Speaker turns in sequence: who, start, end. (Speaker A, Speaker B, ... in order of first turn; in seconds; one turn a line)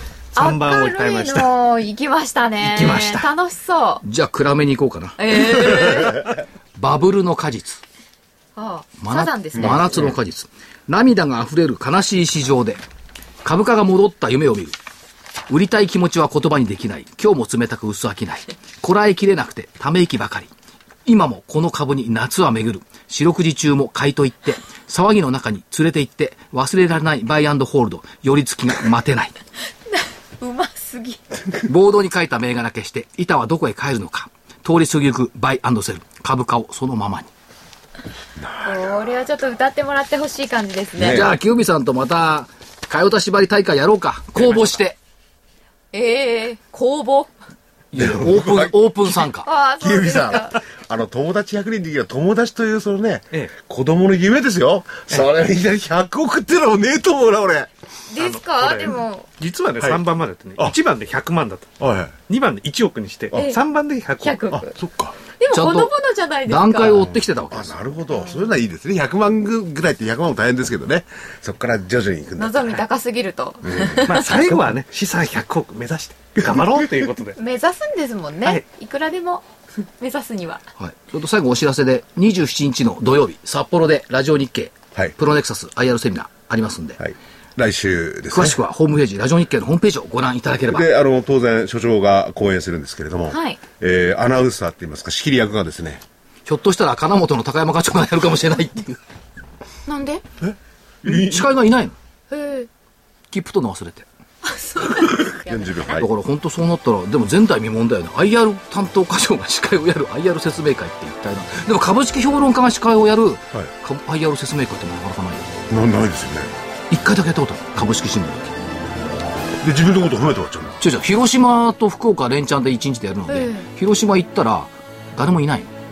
Speaker A: 0.3-1.5
Speaker B: 0.4-4.0
Speaker A: 2.6-3.3
Speaker C: 4.0-6.0
Speaker B: 5.2-6.3
Speaker C: 6.8-7.8
Speaker B: 8.6-9.8
Speaker C: 9.0-12.8
Speaker D: 9.6-9.9
Speaker C: 13.4-14.7
Speaker C: 15.5-20.5
Speaker C: 21.1-29.3
Speaker B: 29.9-31.2
Speaker C: 31.6-37.3
Speaker D: 38.4-39.2
Speaker B: 38.6-41.3
Speaker D: 41.0-41.3
Speaker C: 41.1-45.0
Speaker B: 45.9-47.3
Speaker C: 47.9-49.5
Speaker D: 48.0-48.8
Speaker B: 49.4-50.6
Speaker D: 49.8-57.7
Speaker B: 58.1-59.3
Speaker A: 58.2-61.7
Speaker D: 61.8-62.2
Speaker A: 62.3-64.5
Speaker B: 63.3-63.6
Speaker B: 64.2-64.8
Speaker D: 64.7-65.2
Speaker B: 65.4-67.1
Speaker C: 65.5-65.9
Speaker C: 66.5-67.8
Speaker D: 66.9-72.8
Speaker B: 68.1-68.5
Speaker B: 72.4-74.5
Speaker D: 73.6-74.1
Speaker A: 74.0-77.4
Speaker B: 77.3-80.6
Speaker C: 80.8-87.0
Speaker D: 87.0-88.6
Speaker C: 88.3-90.9
Speaker D: 90.7-96.0
Speaker B: 93.3-93.6
Speaker C: 96.5-99.0
Speaker B: 99.8-100.2
Speaker D: 100.4-101.5
Speaker C: 101.0-102.0
Speaker B: 102.3-102.7
Speaker C: 103.3-104.0
Speaker B: 104.4-106.0
Speaker D: 104.9-106.1
Speaker C: 105.9-115.5
Speaker D: 115.7-116.5
Speaker C: 116.9-118.6
Speaker D: 119.5-120.8
Speaker C: 120.8-125.7
Speaker B: 123.3-123.7